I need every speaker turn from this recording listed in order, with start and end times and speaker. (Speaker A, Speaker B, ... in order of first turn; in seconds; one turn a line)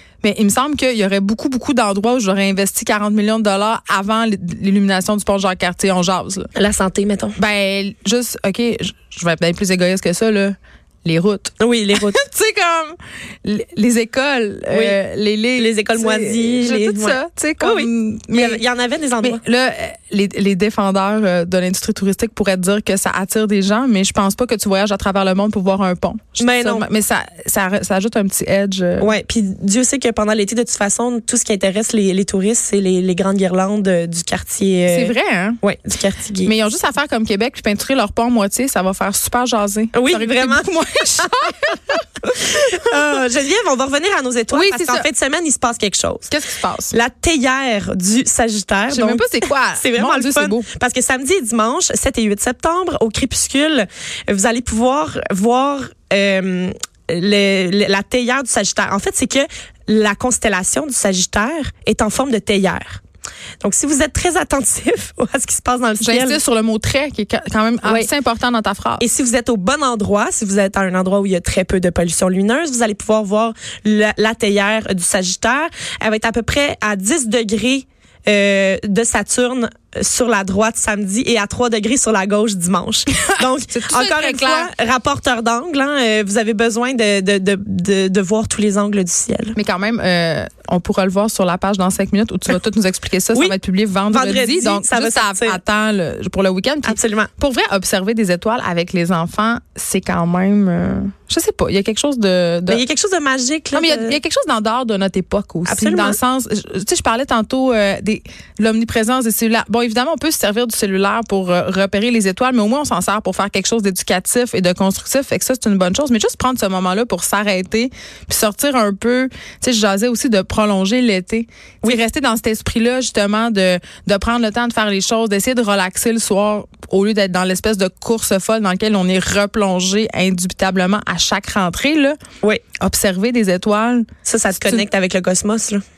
Speaker A: 0.2-6.5
Speaker B: 6.5-7.4
Speaker A: 7.4-18.6
Speaker B: 11.6-12.2
Speaker B: 14.7-15.0
Speaker B: 15.6-19.4
Speaker A: 19.2-29.1
Speaker B: 26.4-26.9
Speaker B: 29.0-36.5
Speaker A: 34.9-35.6
Speaker A: 36.4-43.0
Speaker B: 39.9-46.3
Speaker A: 44.5-45.1
Speaker A: 46.3-46.9
Speaker B: 46.9-63.0
Speaker A: 48.9-50.7
Speaker B: 63.6-66.4
Speaker A: 66.0-69.0
Speaker B: 67.8-68.1
Speaker B: 69.0-89.5
Speaker A: 83.1-84.7
Speaker A: 89.5-102.8
Speaker B: 94.1-95.6
Speaker B: 96.8-97.3
Speaker B: 102.7-104.2
Speaker A: 103.7-132.2
Speaker B: 105.7-106.2
Speaker A: 132.8-134.8
Speaker B: 134.2-135.8